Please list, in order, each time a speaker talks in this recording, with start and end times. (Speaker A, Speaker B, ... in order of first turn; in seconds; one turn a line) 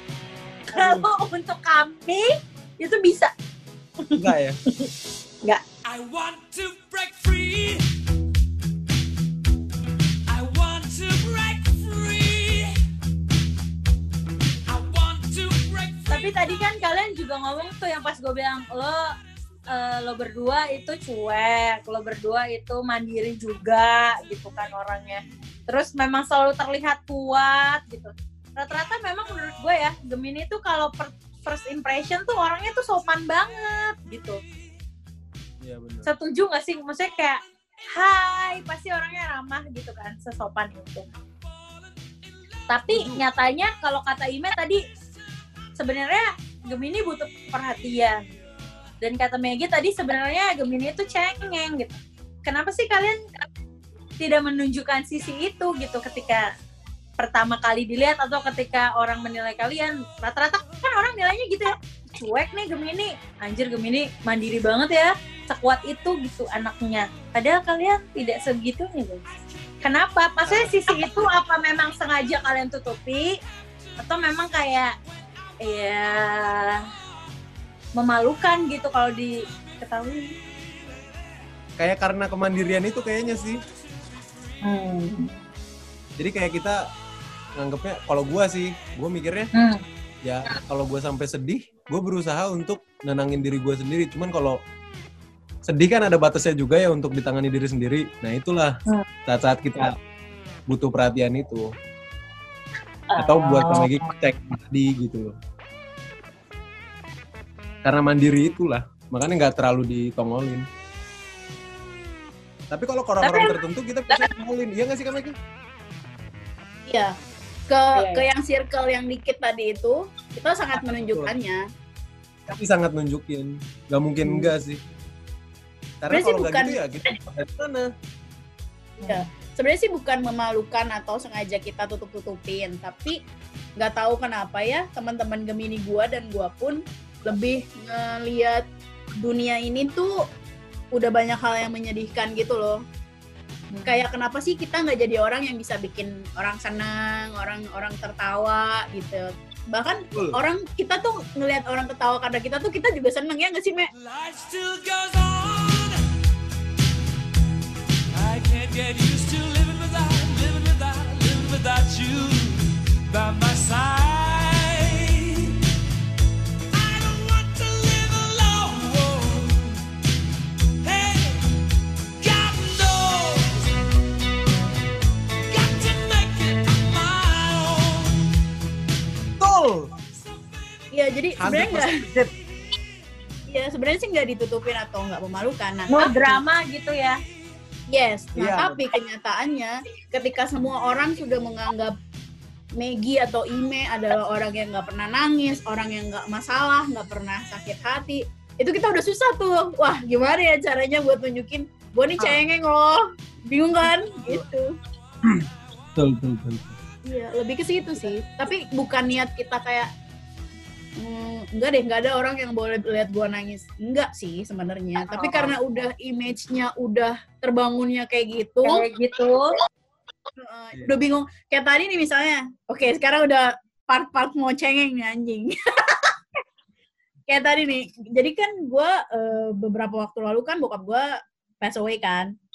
Speaker A: 0.7-1.1
Speaker B: 0.7-3.3
Speaker A: 4.2-4.6
Speaker C: 5.8-7.9
Speaker C: 10.3-12.7
Speaker C: 14.7-16.5
Speaker B: 16.1-19.1
Speaker B: 19.7-34.4
Speaker A: 35.6-36.1
Speaker B: 36.0-41.0
Speaker B: 42.7-44.8
Speaker A: 42.9-43.2
Speaker B: 45.8-48.2
Speaker B: 49.0-53.2
Speaker B: 54.2-56.5
Speaker B: 57.2-69.2
Speaker B: 69.8-73.3
Speaker A: 70.5-70.9
Speaker B: 74.0-74.9
Speaker B: 75.6-76.8
Speaker B: 78.0-80.3
Speaker A: 81.8-83.6
Speaker B: 84.6-85.3
Speaker A: 86.2-86.8
Speaker A: 87.6-89.5
Speaker A: 90.2-94.6
Speaker A: 95.7-100.0
Speaker A: 100.7-101.7
Speaker B: 103.1-104.0
Speaker A: 103.2-105.3
Speaker A: 107.8-110.7
Speaker A: 112.7-115.4
Speaker B: 113.2-113.6
Speaker D: 116.9-117.2
Speaker D: 117.7-121.6
Speaker B: 117.9-118.2
Speaker A: 120.8-121.3
Speaker A: 122.5-124.8
Speaker A: 126.0-127.9
Speaker D: 126.1-126.8
Speaker D: 129.0-133.2
Speaker D: 133.8-138.6
Speaker D: 139.2-140.1
Speaker D: 140.9-142.8
Speaker B: 143.7-144.0
Speaker D: 143.8-153.9
Speaker C: 153.9-156.0
Speaker C: 158.1-165.6
Speaker C: 166.7-169.8
Speaker C: 170.8-171.4
Speaker C: 172.2-173.7
Speaker C: 175.5-178.2
Speaker A: 179.4-179.9
Speaker D: 180.9-182.0
Speaker A: 181.4-182.3
Speaker D: 183.5-186.4
Speaker B: 185.9-187.2
Speaker D: 187.9-191.9
Speaker A: 188.4-188.8
Speaker D: 192.8-204.7
Speaker A: 205.9-206.7
Speaker D: 207.0-209.9
Speaker D: 211.0-218.8
Speaker B: 215.1-215.5
Speaker B: 218.6-219.6
Speaker D: 220.4-226.2
Speaker D: 227.3-231.1
Speaker D: 231.6-232.3